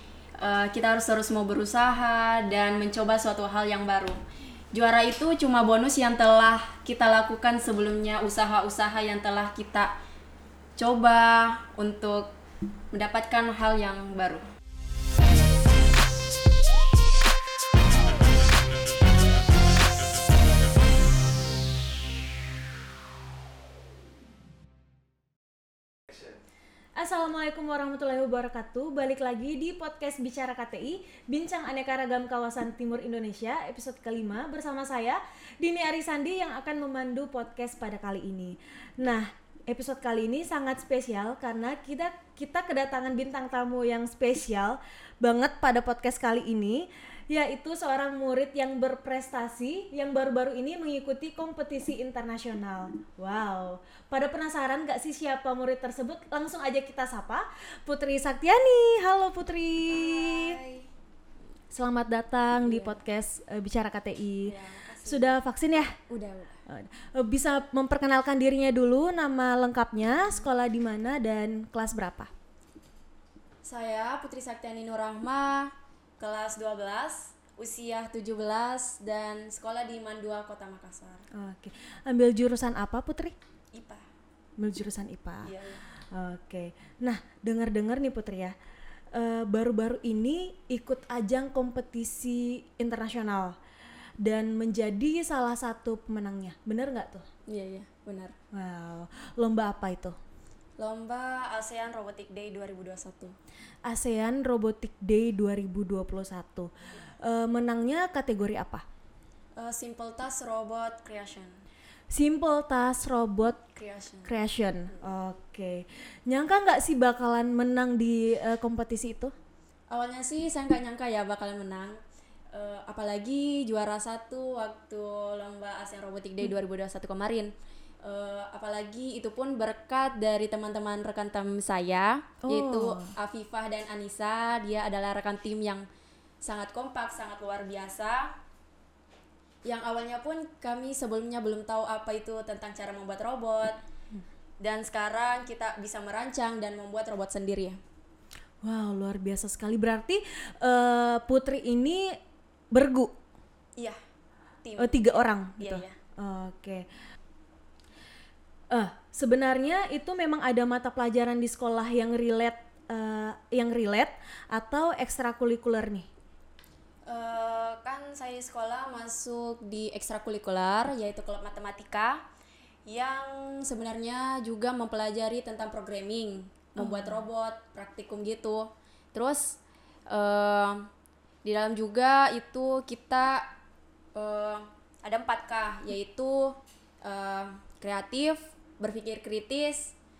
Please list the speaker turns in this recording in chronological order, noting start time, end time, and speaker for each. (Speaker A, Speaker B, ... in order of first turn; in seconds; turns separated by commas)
Speaker A: 0.4-4.2, Speaker A: 4.7-9.9, Speaker A: 10.8-12.3, Speaker A: 12.9-14.4, Speaker B: 26.9-60.6, Speaker A: 59.9-60.9, Speaker B: 61.7-65.9, Speaker A: 62.6-63.0, Speaker A: 64.4-66.6, Speaker B: 66.7-72.3, Speaker A: 73.6-81.2, Speaker B: 81.3-83.4, Speaker A: 83.7-84.0, Speaker B: 84.6-85.5, Speaker A: 85.4-85.8, Speaker B: 86.1-88.5, Speaker B: 89.1-93.6, Speaker B: 94.2-97.3, Speaker A: 97.5-98.3, Speaker B: 98.5-100.2, Speaker A: 100.8-103.3, Speaker B: 103.8-108.8, Speaker A: 109.5-111.6, Speaker B: 112.1-113.6, Speaker A: 113.7-115.0, Speaker B: 114.2-119.3, Speaker A: 119.9-122.0, Speaker A: 122.5-135.8, Speaker B: 132.4-133.1, Speaker A: 136.4-138.4, Speaker A: 139.6-143.8, Speaker A: 144.6-147.8, Speaker B: 148.6-152.2, Speaker B: 152.7-153.2, Speaker A: 154.6-155.9, Speaker B: 154.8-156.9, Speaker B: 158.7-166.1, Speaker A: 167.0-172.2, Speaker A: 172.8-180.9, Speaker B: 176.8-177.2, Speaker A: 181.4-183.5, Speaker A: 184.1-189.9